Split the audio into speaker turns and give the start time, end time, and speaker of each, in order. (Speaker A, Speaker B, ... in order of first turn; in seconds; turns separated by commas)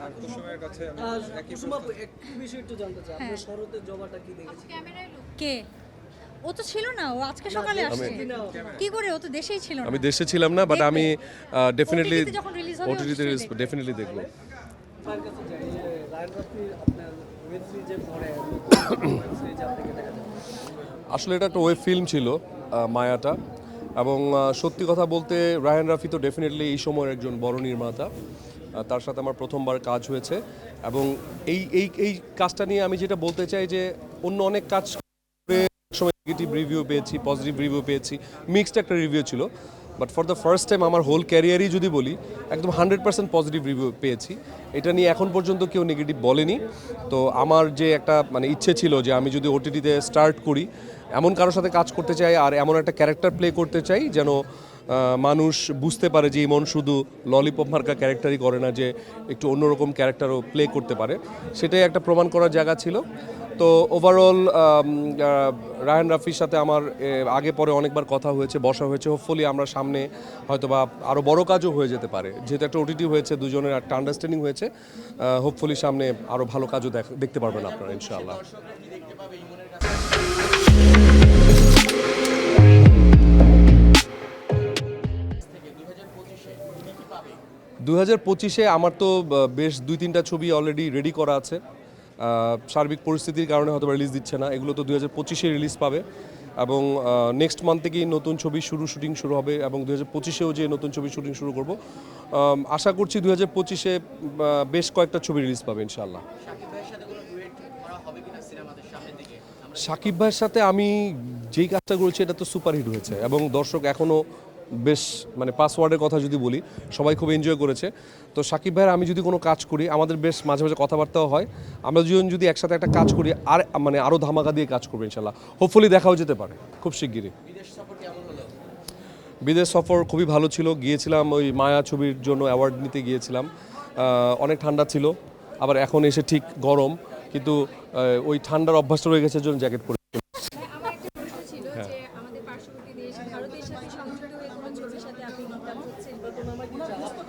Speaker A: 0.2-0.9, Speaker B: 0.8-4.8, Speaker C: 3.1-3.5, Speaker C: 4.7-5.7, Speaker C: 6.4-10.1, Speaker B: 7.7-8.7, Speaker D: 7.9-8.2, Speaker D: 9.8-14.3, Speaker C: 10.7-11.1, Speaker C: 11.9-13.6, Speaker B: 15.0-20.4, Speaker D: 21.1-23.4, Speaker D: 23.9-28.1, Speaker D: 28.7-63.0, Speaker D: 63.6-78.4, Speaker A: 78.4-79.9, Speaker A: 85.7-87.2, Speaker D: 87.8-91.6, Speaker D: 92.2-96.0, Speaker D: 96.6-101.8, Speaker D: 102.3-106.2, Speaker A: 106.4-109.7, Speaker D: 109.8-114.2, Speaker D: 114.8-127.3, Speaker A: 127.6-128.5, Speaker D: 129.4-140.5, Speaker A: 140.5-146.3, Speaker B: 146.3-147.2